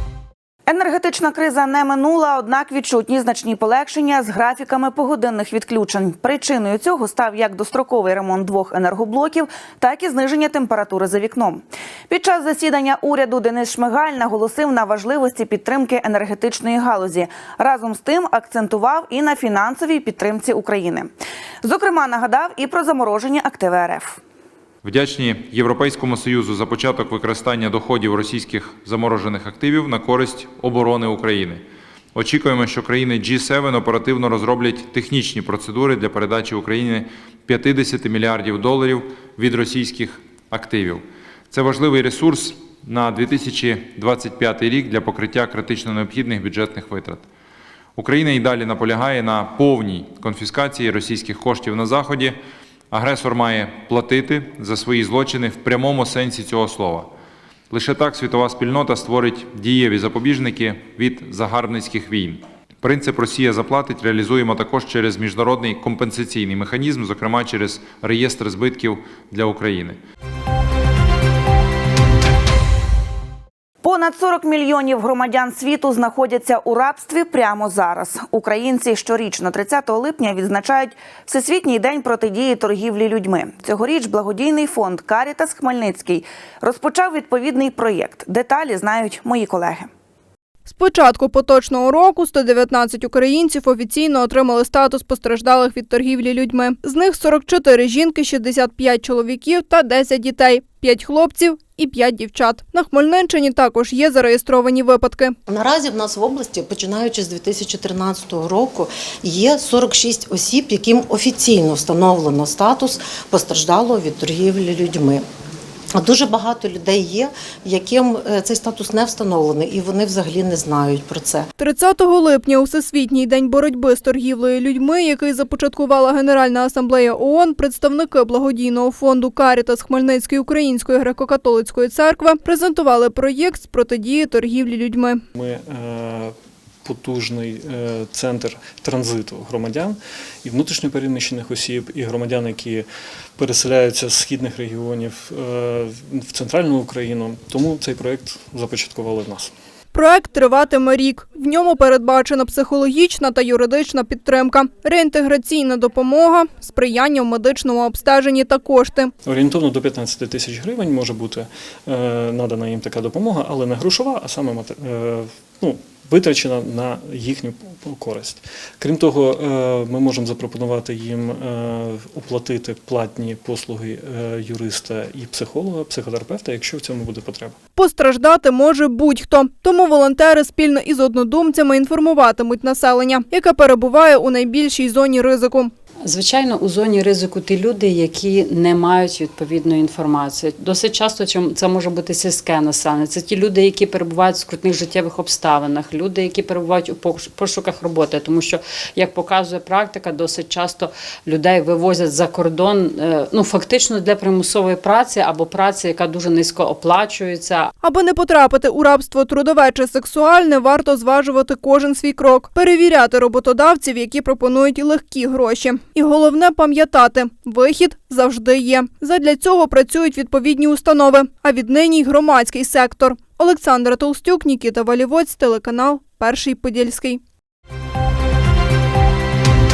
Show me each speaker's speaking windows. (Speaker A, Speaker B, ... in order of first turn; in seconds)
Speaker A: 0.7-21.1, 21.6-24.2, 73.8-89.9
Speaker B: 24.9-31.6, 32.1-47.2, 48.0-52.4, 52.9-57.1, 57.7-70.0
Speaker C: 90.8-105.3, 121.6-135.2, 149.9-159.1, 177.8-185.7, 207.8-227.2
Speaker D: 105.6-115.2, 116.0-121.3
Speaker E: 135.3-149.5, 159.2-177.6
Speaker F: 186.0-207.7